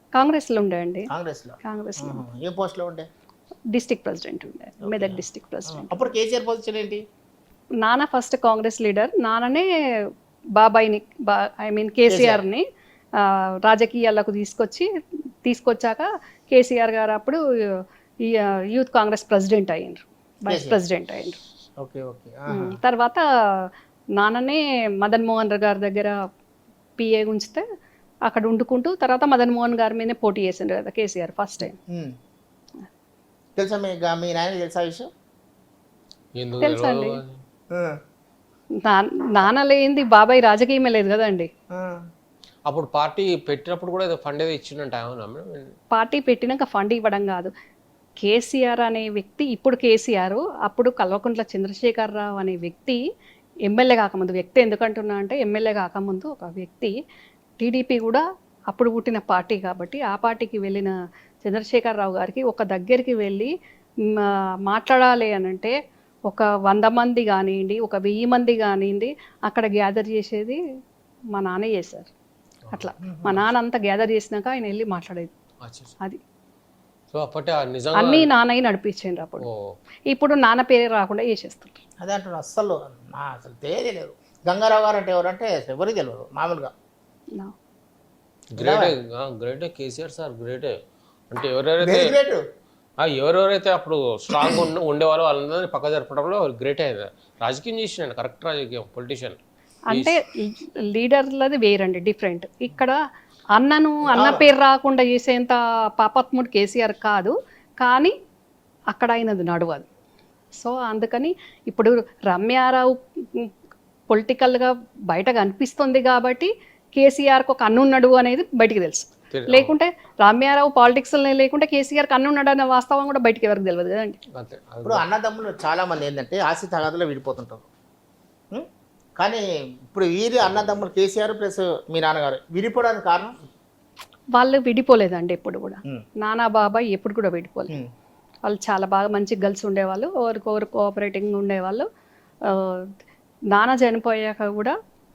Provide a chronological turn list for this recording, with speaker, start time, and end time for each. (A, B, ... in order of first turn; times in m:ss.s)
0:00.2-0:01.1 A
0:01.1-0:03.1 B
0:01.6-0:02.2 A
0:03.7-0:06.1 A
0:04.8-0:07.0 B
0:07.8-0:09.7 A
0:10.6-0:12.6 A
0:12.1-0:12.4 B
0:13.2-0:14.9 A
0:15.4-0:21.4 A
0:20.5-0:20.8 B
0:21.8-0:22.8 B
0:22.5-0:26.2 A
0:27.0-0:27.6 A
0:28.3-0:31.8 A
0:33.6-0:35.1 B
0:36.4-0:37.4 C
0:36.6-0:37.2 A
0:38.8-0:41.5 A
0:41.7-0:42.0 B
0:42.7-0:45.7 C
0:45.9-0:47.5 A
0:48.2-0:53.0 A
0:53.7-0:56.9 A
0:57.6-1:03.5 A
1:04.2-1:05.7 A
1:06.3-1:10.6 A
1:11.3-1:12.1 A
1:12.7-1:15.3 A
1:13.0-1:13.4 B
1:15.6-1:15.9 C
1:17.1-1:18.3 C
1:18.0-1:19.5 A
1:19.4-1:19.8 C
1:20.1-1:21.8 A
1:22.0-1:26.7 B
1:28.5-1:30.7 C
1:28.6-1:28.9 B
1:31.3-1:32.2 C
1:31.8-1:32.4 B
1:33.0-1:39.4 C
1:39.9-1:43.0 A
1:43.6-1:48.1 A
1:44.1-1:44.5 B
1:48.9-1:49.9 A
1:50.6-1:53.5 A
1:54.1-2:04.2 A
1:59.3-1:59.7 C
2:04.4-2:05.0 C
2:04.8-2:07.7 B
2:09.2-2:13.4 B
2:14.4-2:17.7 A
2:18.5-2:21.9 A
2:22.5-2:22.9 A
2:23.5-2:24.7 A